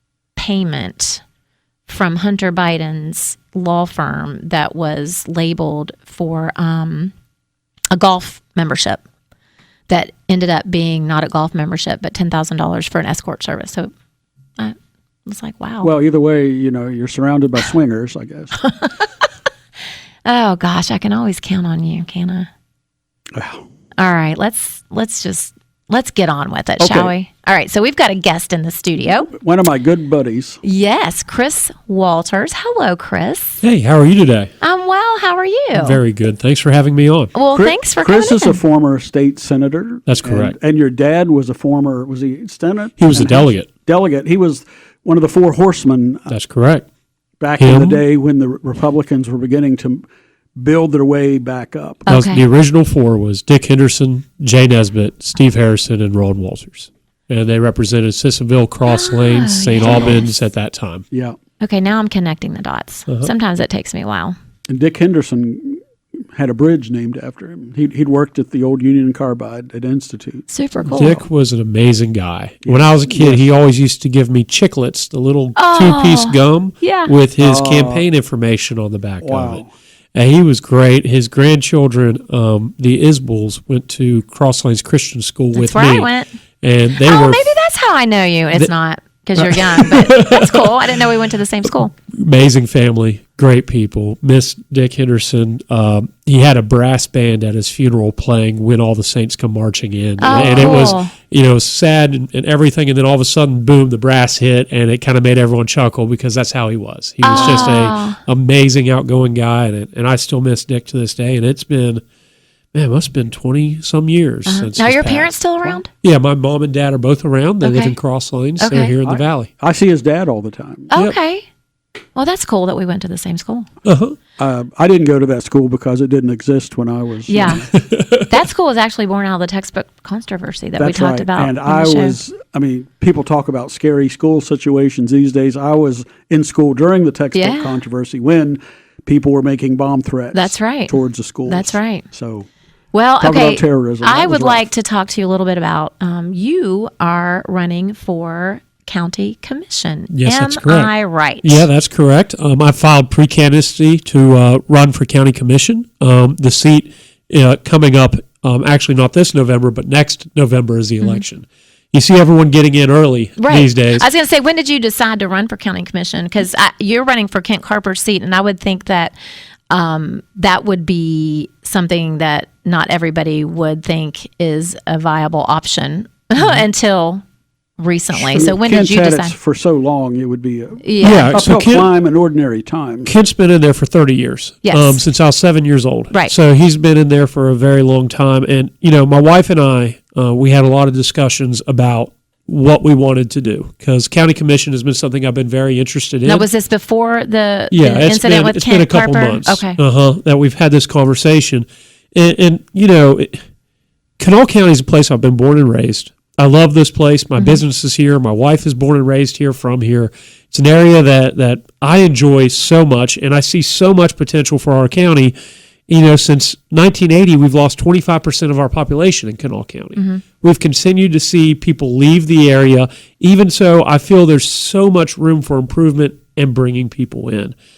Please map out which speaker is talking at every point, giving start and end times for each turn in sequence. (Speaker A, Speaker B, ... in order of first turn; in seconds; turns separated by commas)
Speaker A: 0.4-1.2, Speaker A: 1.9-7.1, Speaker A: 7.9-9.0, Speaker A: 9.9-13.9, Speaker A: 14.6-15.9, Speaker B: 15.8-18.6, Speaker A: 18.6-19.1, Speaker A: 20.2-22.5, Speaker B: 23.3-23.6, Speaker A: 24.0-29.3, Speaker B: 26.8-27.1, Speaker B: 29.3-30.6, Speaker A: 30.6-33.6, Speaker C: 33.6-34.5, Speaker A: 34.6-36.0, Speaker C: 35.7-37.3, Speaker A: 37.3-38.6, Speaker B: 37.5-46.3, Speaker C: 40.1-40.5, Speaker C: 43.0-43.7, Speaker C: 46.3-46.9, Speaker B: 47.4-50.0, Speaker C: 47.6-48.0, Speaker B: 50.6-52.0, Speaker A: 52.1-52.5, Speaker C: 52.1-61.0, Speaker A: 58.9-60.3, Speaker B: 61.1-61.4, Speaker A: 61.6-64.4, Speaker B: 64.7-65.8, Speaker B: 66.3-71.1, Speaker A: 70.5-71.2, Speaker C: 70.9-79.6, Speaker B: 72.7-73.5, Speaker A: 75.6-77.1, Speaker B: 77.4-78.0, Speaker B: 79.2-79.7, Speaker C: 80.2-86.1, Speaker A: 85.5-86.3, Speaker C: 86.6-87.5, Speaker A: 87.0-91.9, Speaker C: 89.4-90.9, Speaker C: 92.1-112.0, Speaker A: 100.2-101.1, Speaker A: 107.2-108.2, Speaker C: 112.7-115.3, Speaker A: 114.5-115.9, Speaker C: 116.0-119.5, Speaker A: 117.6-118.0, Speaker A: 118.6-119.0, Speaker B: 119.0-120.9, Speaker A: 120.9-121.5, Speaker A: 122.2-123.7, Speaker C: 123.8-124.2, Speaker B: 124.4-127.7, Speaker A: 127.3-132.2, Speaker C: 127.8-128.3, Speaker B: 130.8-142.5, Speaker A: 137.3-137.8, Speaker A: 140.3-142.0, Speaker A: 142.9-151.7, Speaker B: 143.2-144.7, Speaker C: 150.1-164.1, Speaker A: 163.4-169.2, Speaker A: 169.7-177.2, Speaker A: 177.8-179.3, Speaker B: 178.1-183.1, Speaker A: 180.8-181.4, Speaker C: 181.0-181.9, Speaker C: 183.1-196.5, Speaker A: 184.6-185.0, Speaker A: 196.2-199.8, Speaker C: 197.7-203.4, Speaker C: 204.2-215.3, Speaker C: 215.9-227.6, Speaker A: 220.0-220.2